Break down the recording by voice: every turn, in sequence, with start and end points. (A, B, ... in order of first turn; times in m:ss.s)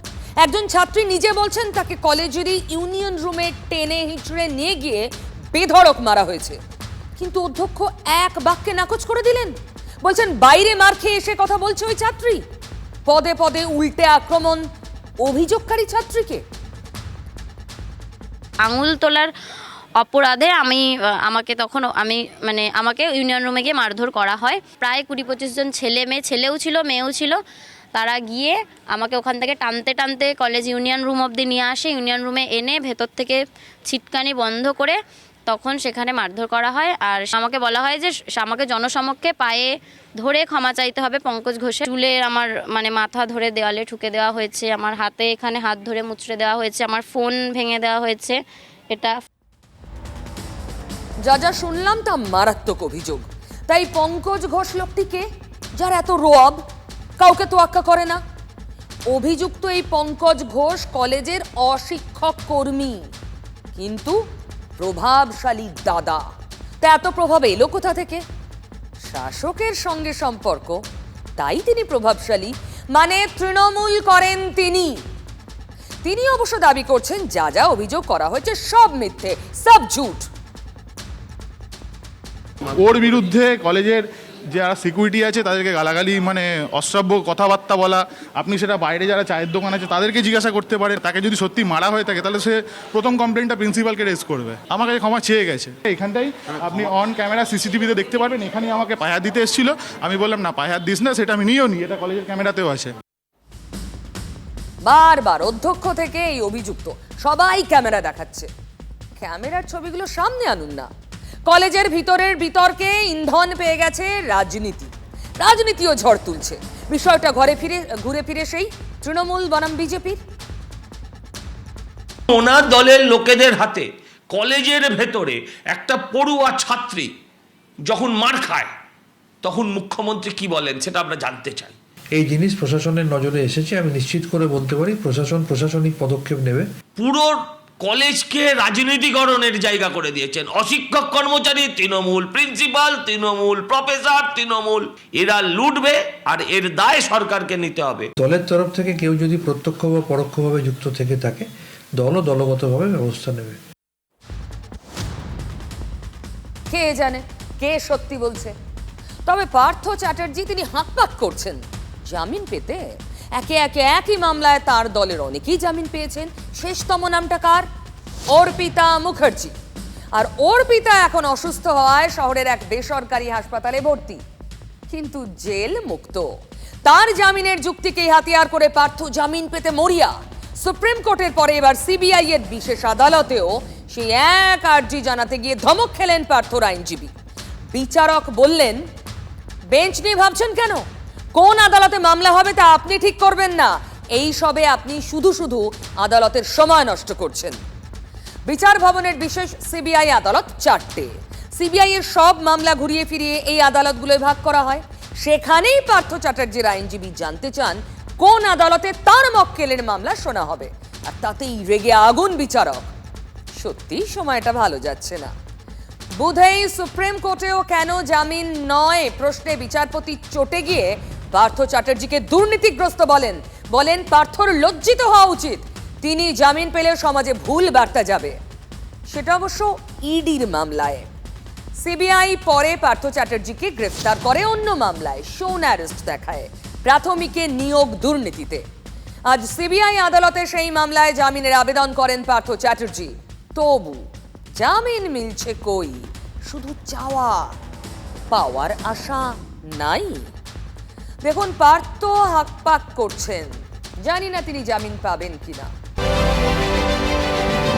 0:00.4-0:06.6 A
0:07.2-0:12.4 A
0:13.1-0:14.7 A
0:15.2-0:16.4 A
0:18.6-0:19.3 B
0:20.0-0:27.4 B
0:27.9-0:48.4 B
0:51.2-0:55.2 A
0:55.8-0:56.6 A
0:57.2-0:58.2 A
0:59.1-1:03.0 A
1:03.8-1:04.2 A
1:04.8-1:06.2 A
1:06.8-1:08.2 A
1:09.0-1:10.8 A
1:11.4-1:15.0 A
1:16.0-1:20.3 A
1:22.7-1:24.0 C
1:24.5-1:42.9 C
1:44.8-1:48.5 A
1:49.2-1:50.9 A
1:51.5-2:00.2 A
2:02.3-2:07.1 D
2:07.8-2:08.7 D
2:09.4-2:11.7 D
2:12.2-2:16.7 E
2:17.0-2:28.1 D
2:28.2-2:31.5 E
2:32.0-2:33.6 E
2:36.7-2:38.5 A
2:39.3-2:42.8 A
2:43.4-2:47.7 A
2:48.3-2:49.5 A
2:50.2-2:54.2 A
2:54.9-2:56.2 A
2:56.8-3:07.1 A
3:07.7-3:08.8 A
3:09.7-3:17.6 A
3:18.4-3:32.9 A
3:33.6-3:35.3 A
3:36.2-3:48.4 A
3:49.1-3:51.1 A
3:51.8-3:58.6 A
3:59.3-4:04.1 A
4:04.6-4:07.5 A
4:08.3-4:10.3 A
4:11.2-4:13.5 A
4:14.0-4:15.7 A